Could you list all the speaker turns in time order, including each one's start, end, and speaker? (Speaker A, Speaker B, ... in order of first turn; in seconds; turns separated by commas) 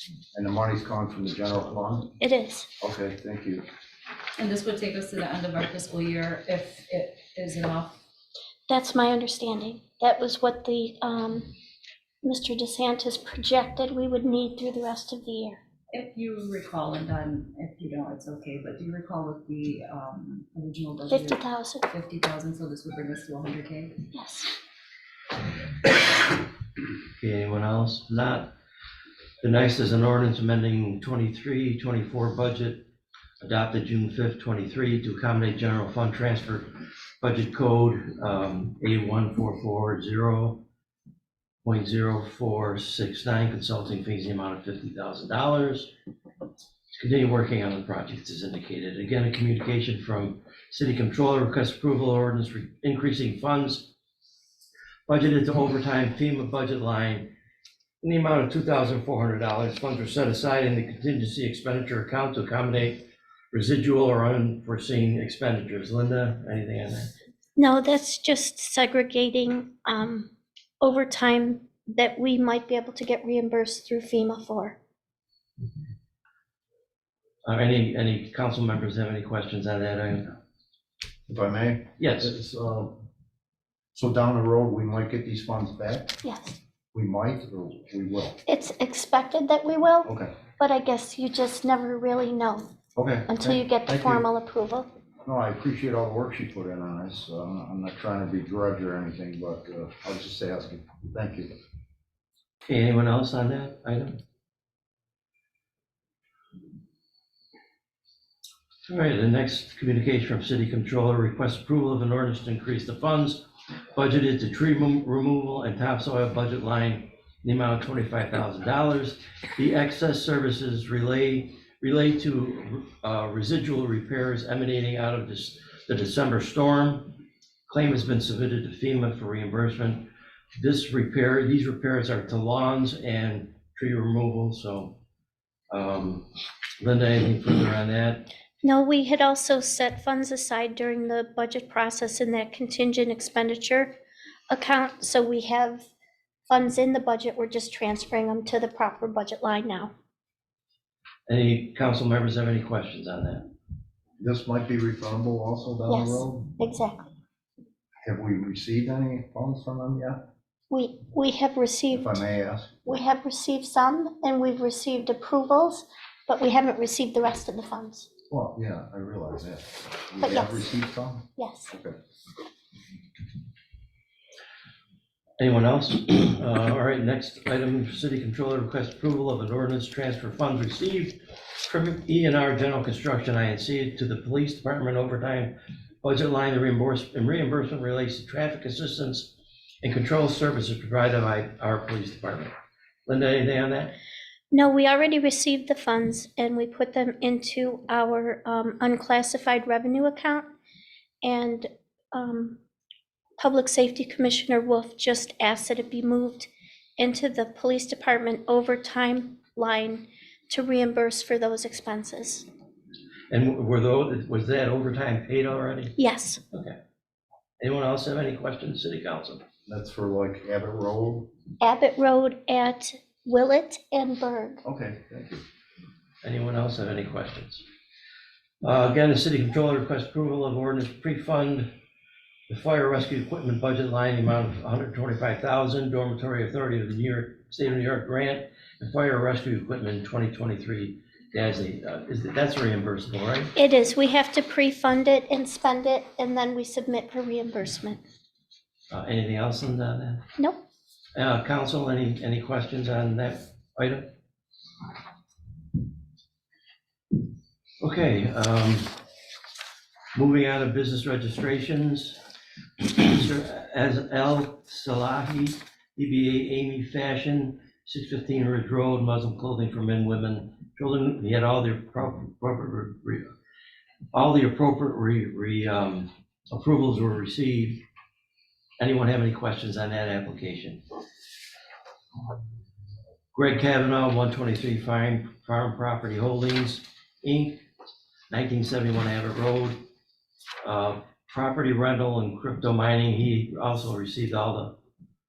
Speaker A: 0.3-2.1, Speaker B: 2.2-2.7, Speaker A: 2.8-3.6, Speaker C: 4.4-8.0, Speaker B: 8.7-11.5, Speaker B: 12.2-15.6, Speaker C: 15.9-24.0, Speaker B: 21.1-21.9, Speaker B: 24.1-24.5, Speaker D: 27.2-28.5, Speaker D: 29.4-32.9, Speaker D: 33.4-36.7, Speaker D: 37.2-40.6, Speaker D: 41.6-45.9, Speaker D: 46.9-53.9, Speaker D: 55.1-57.3, Speaker D: 58.0-67.1, Speaker B: 67.6-70.3, Speaker B: 70.8-74.8, Speaker D: 77.4-80.3, Speaker A: 81.3-83.0, Speaker D: 82.0-82.3, Speaker A: 83.9-86.2, Speaker B: 86.2-86.6, Speaker A: 86.9-88.4, Speaker B: 88.5-92.7, Speaker A: 90.0-90.3, Speaker A: 93.0-94.2, Speaker B: 93.3-94.9, Speaker A: 95.2-101.5, Speaker D: 102.7-104.2, Speaker D: 108.9-113.4, Speaker D: 113.9-130.1, Speaker D: 130.6-135.0, Speaker D: 135.7-136.3, Speaker D: 136.8-138.3, Speaker B: 138.6-143.9, Speaker B: 144.5-145.9, Speaker B: 146.5-149.9, Speaker D: 151.3-153.5, Speaker A: 154.2-156.4, Speaker B: 155.9-157.1, Speaker A: 158.0-160.2, Speaker B: 160.7-162.2, Speaker A: 161.9-163.0, Speaker B: 162.9-168.1, Speaker A: 168.3-171.9, Speaker B: 170.2-170.6, Speaker B: 171.3-171.7, Speaker D: 175.4-192.5, Speaker D: 193.1-193.9, Speaker B: 194.5-200.5, Speaker B: 201.2-202.6, Speaker B: 203.4-212.4, Speaker D: 213.3-215.9, Speaker B: 216.0-216.4, Speaker D: 217.6-219.4, Speaker A: 219.7-221.3, Speaker B: 221.6-224.6, Speaker A: 224.6-225.4, Speaker D: 226.2-227.6, Speaker D: 228.6-231.7, Speaker D: 232.5-243.5, Speaker B: 243.5-248.0, Speaker D: 248.9-250.2, Speaker D: 251.1-254.1, Speaker D: 257.8-259.0, Speaker D: 260.1-262.2, Speaker D: 262.8-273.3, Speaker D: 274.1-277.8, Speaker D: 278.8-280.8, Speaker D: 283.3-287.6, Speaker D: 288.3-289.8, Speaker D: 290.6-294.8